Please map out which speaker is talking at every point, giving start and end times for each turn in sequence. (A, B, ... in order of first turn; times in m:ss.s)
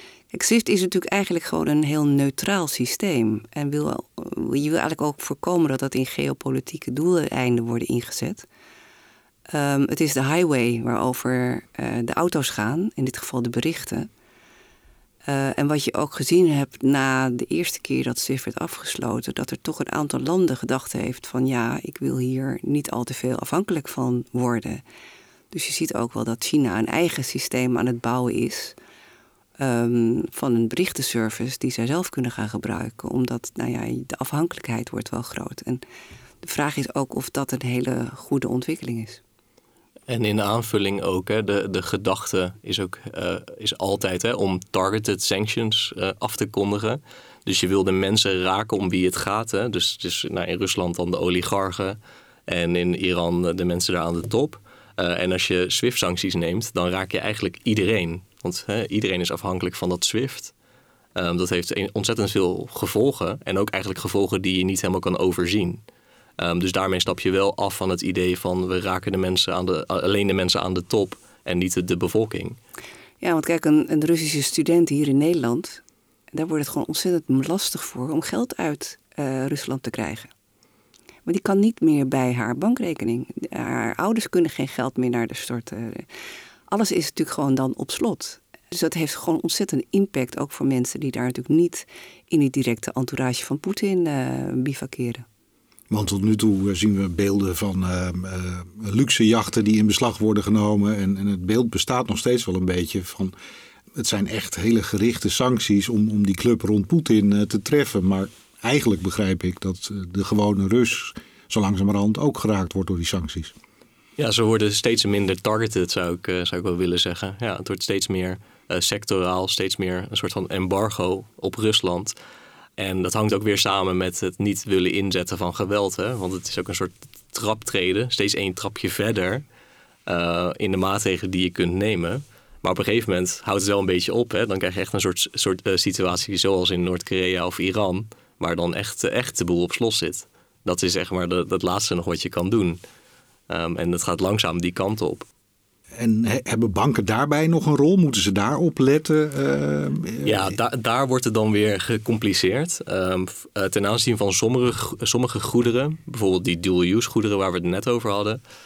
0:00.3-0:08.5 A
0:09.5-0:14.1 A
0:15.3-0:24.8 A
0:25.5-0:28.8 A
0:29.6-0:35.8 A
0:36.4-0:39.2 A
0:40.1-1:00.5 B
1:01.2-1:05.8 B
1:06.4-1:12.6 B
1:13.2-1:20.3 A
1:21.3-1:26.1 A
1:26.7-1:35.2 A
1:35.9-1:43.3 C
1:44.0-1:53.5 C
1:54.2-2:02.1 B
2:02.8-2:09.4 B
2:10.1-2:22.8 B
2:23.5-2:25.3 B
2:26.0-2:30.5 C
2:30.2-2:38.4 B